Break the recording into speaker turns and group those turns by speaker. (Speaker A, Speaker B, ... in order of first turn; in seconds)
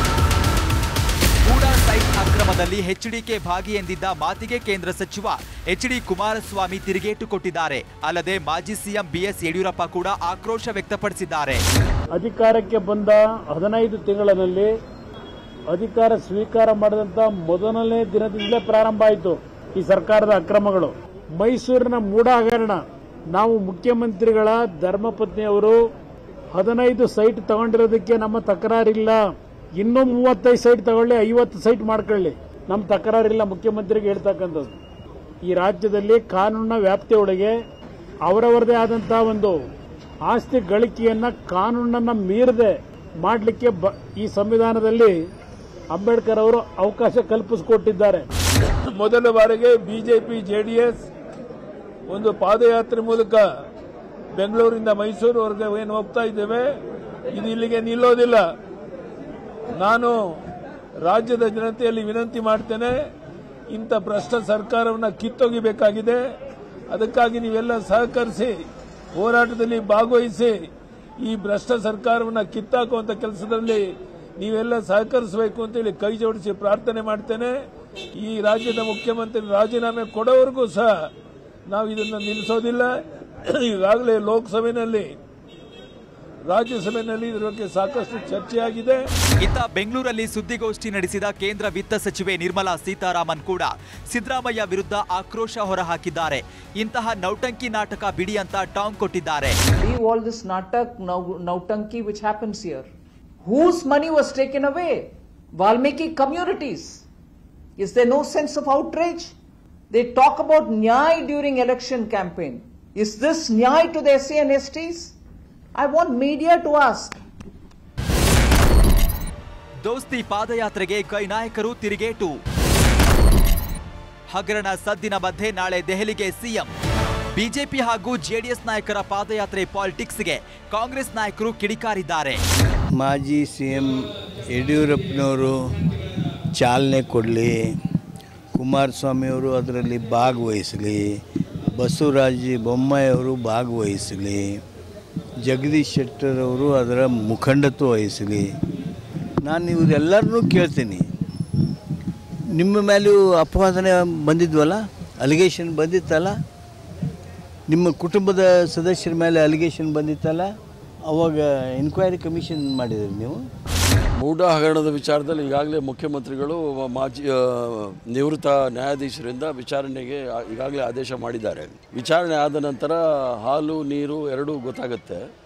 Speaker A: 1.4-11.6, 89.4-99.6, 119.8-122.4, 124.3-126.7, 127.3-132.4
Speaker B: 12.1-14.7, 15.7-25.8, 26.5-29.2, 29.8-34.8, 35.4-37.5, 38.2-39.6, 40.2-45.1, 45.9-48.2
Speaker C: 48.9-51.0, 52.1-53.5, 54.3-56.8, 57.3-58.5, 59.7-60.3, 61.0-63.0, 63.7-66.2, 66.9-68.6, 69.1-70.6, 71.2-77.6, 78.2-81.1, 81.7-85.1, 86.5-89.1
Speaker D: 99.8-102.8, 103.4-107.0, 107.8-109.3, 109.9-115.1, 115.8-117.2
Speaker E: 132.9-135.7, 136.5-137.6, 138.5-141.1, 141.8-144.6, 145.4-148.5, 149.4-151.1, 152.5-156.3, 157.7-160.5, 161.1-163.4
Speaker F: 164.2-175.2